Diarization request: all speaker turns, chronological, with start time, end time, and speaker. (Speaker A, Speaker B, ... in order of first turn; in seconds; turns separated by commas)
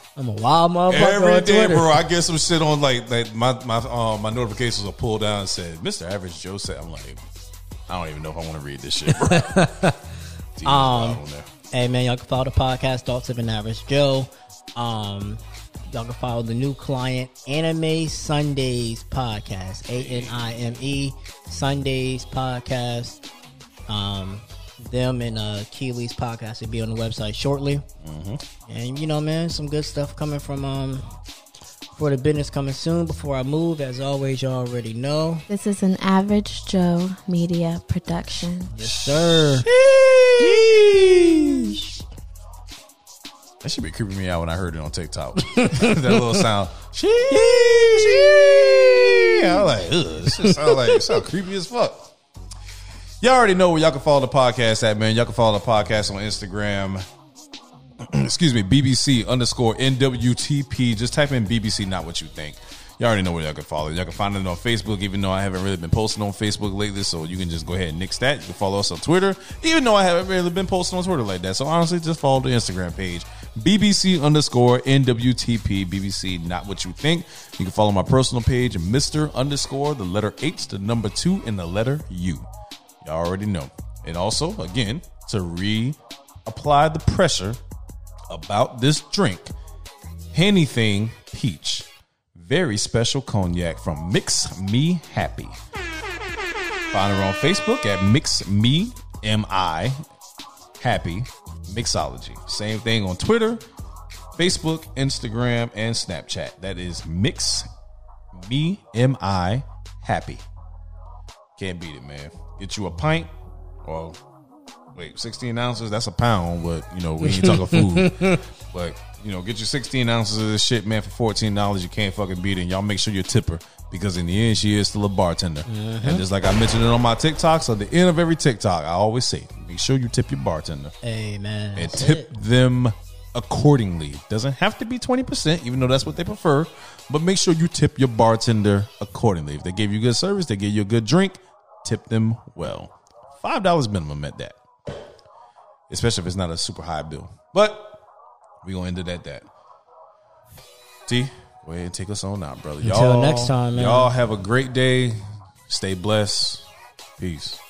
Speaker A: 0.1-1.9, Speaker B: 0.9-7.2, Speaker B: 7.9-9.7, Speaker A: 9.1-10.0, Speaker B: 10.6-11.5, Speaker A: 10.6-23.2, Speaker B: 19.9-20.5, Speaker A: 23.9-27.8, Speaker B: 28.0-28.4, Speaker A: 28.6-31.2, Speaker A: 31.9-35.5, Speaker C: 35.5-38.7, Speaker A: 38.7-39.7, Speaker B: 38.8-41.7, Speaker B: 43.6-52.1, Speaker A: 45.4-46.2, Speaker A: 47.3-49.5, Speaker A: 50.3-51.1, Speaker B: 53.2-57.0, Speaker B: 58.0-82.5, Speaker B: 83.0-87.6, Speaker B: 88.3-89.5, Speaker B: 90.3-95.6, Speaker B: 96.9-100.0, Speaker B: 100.8-103.6, Speaker B: 104.4-107.7, Speaker B: 108.3-110.4, Speaker B: 111.6-113.3, Speaker B: 113.8-114.2, Speaker B: 114.9-130.9, Speaker A: 117.2-118.4, Speaker A: 125.7-126.2, Speaker A: 131.0-132.3, Speaker B: 131.7-144.6, Speaker B: 145.9-148.0, Speaker B: 148.6-149.5, Speaker B: 151.1-157.6, Speaker A: 152.8-154.1